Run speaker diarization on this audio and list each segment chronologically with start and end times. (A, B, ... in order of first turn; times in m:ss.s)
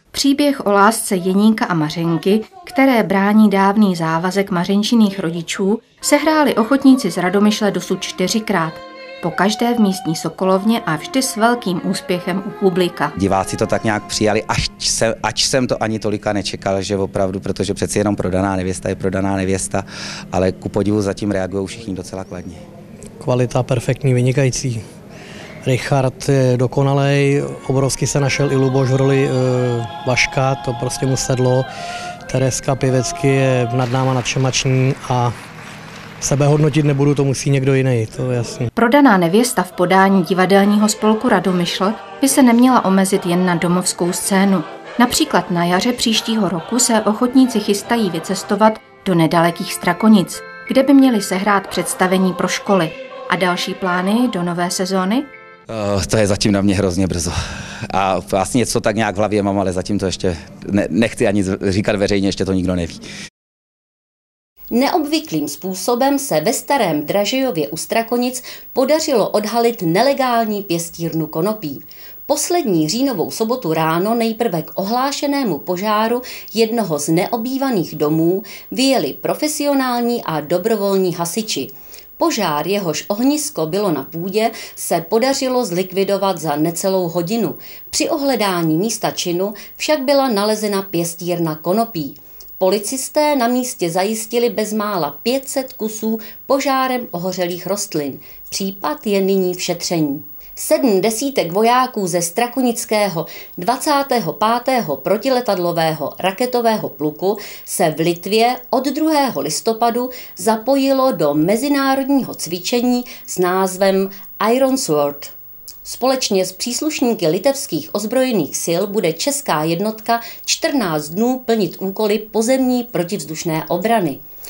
0:00.1-0:13.1 A
0:13.2-0:22.6 B
0:23.2-0:24.8 C
0:25.6-0:31.6 C
0:32.3-0:35.3 C
0:36.2-0:38.7 C
0:38.8-0:55.3 A
0:55.7-0:57.4 B
0:57.9-1:03.0 B
1:04.7-1:55.3 D
1:55.8-2:04.2 D